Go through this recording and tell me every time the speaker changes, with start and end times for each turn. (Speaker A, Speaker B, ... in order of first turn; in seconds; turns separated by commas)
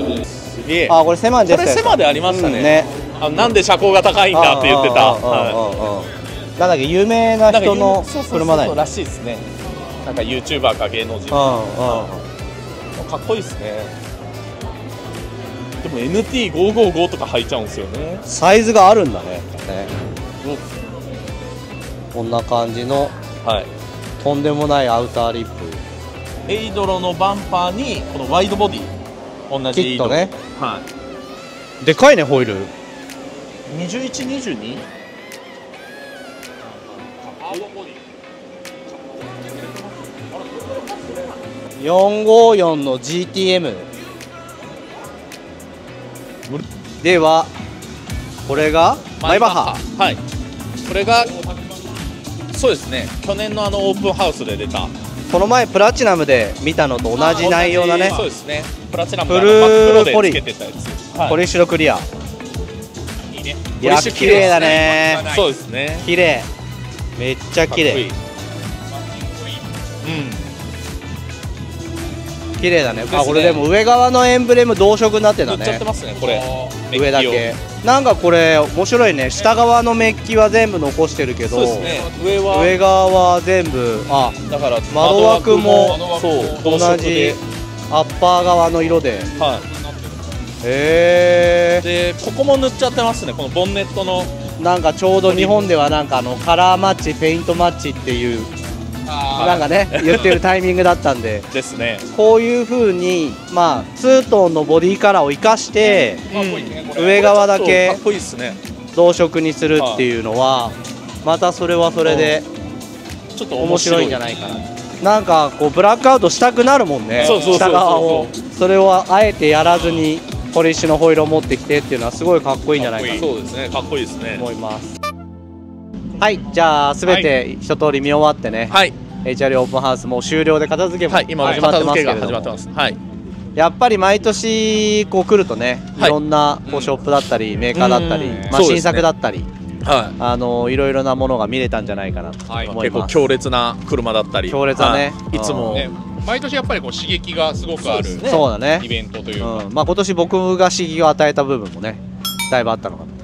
Speaker A: 0.1-5.6, Speaker B: 0.9-3.5, Speaker B: 4.3-8.8, Speaker A: 7.5-9.5, Speaker A: 10.0-12.1, Speaker B: 11.3-12.2, Speaker A: 12.9-13.9, Speaker A: 15.8-18.2, Speaker B: 18.2-19.9, Speaker B: 22.1-23.1, Speaker A: 23.4-23.7, Speaker B: 24.2-25.8, Speaker A: 26.4-28.9, Speaker A: 29.5-30.8, Speaker B: 29.7-30.3, Speaker B: 31.8-32.7, Speaker A: 33.6-34.8, Speaker C: 37.4-37.7, Speaker B: 41.8-43.9, Speaker B: 47.0-47.5, Speaker B: 48.5-49.8, Speaker A: 49.2-50.2, Speaker A: 50.9-51.3, Speaker A: 52.5-54.9, Speaker B: 55.3-58.2, Speaker C: 57.1-58.3, Speaker A: 57.4-61.4, Speaker B: 59.3-60.4, Speaker B: 61.2-62.0, Speaker C: 63.3-65.5, Speaker A: 63.8-66.0, Speaker B: 63.8-65.2, Speaker B: 66.0-66.5, Speaker B: 67.2-68.1, Speaker A: 67.7-68.2, Speaker C: 69.2-69.6, Speaker A: 70.0-70.4, Speaker B: 72.6-75.8, Speaker A: 73.1-73.7, Speaker A: 75.4-77.5, Speaker C: 76.2-76.8, Speaker B: 76.9-81.9, Speaker A: 81.5-82.8, Speaker C: 81.8-82.4, Speaker B: 82.5-86.0, Speaker A: 84.4-87.4, Speaker C: 85.7-87.0, Speaker B: 86.6-89.3, Speaker C: 89.1-90.3, Speaker A: 89.4-89.6, Speaker B: 90.6-91.8, Speaker A: 91.8-94.3, Speaker B: 94.6-98.5, Speaker A: 95.2-95.7, Speaker C: 99.0-99.7, Speaker A: 99.3-100.4, Speaker B: 99.3-101.5, Speaker A: 101.5-102.0, Speaker B: 102.1-106.2, Speaker C: 106.1-107.3, Speaker A: 106.3-108.6, Speaker B: 106.9-108.0, Speaker B: 108.9-112.5, Speaker A: 109.8-110.0, Speaker A: 112.0-112.4, Speaker A: 113.3-114.2, Speaker B: 113.6-123.3, Speaker C: 117.1-118.0, Speaker A: 117.2-118.3, Speaker C: 119.7-120.0, Speaker C: 122.7-123.2, Speaker A: 123.1-124.5, Speaker B: 124.3-124.9, Speaker B: 126.2-132.5, Speaker A: 127.0-127.3, Speaker A: 128.7-128.9, Speaker A: 131.1-133.0, Speaker C: 131.4-131.7, Speaker B: 133.5-139.5, Speaker C: 136.7-136.9, Speaker A: 137.7-139.1, Speaker C: 138.2-138.6, Speaker A: 139.8-140.2, Speaker B: 140.2-143.1, Speaker C: 142.5-142.8, Speaker A: 142.8-145.9, Speaker B: 144.5-145.8, Speaker C: 145.7-149.7, Speaker A: 147.8-148.4, Speaker B: 148.2-148.9, Speaker B: 149.4-153.1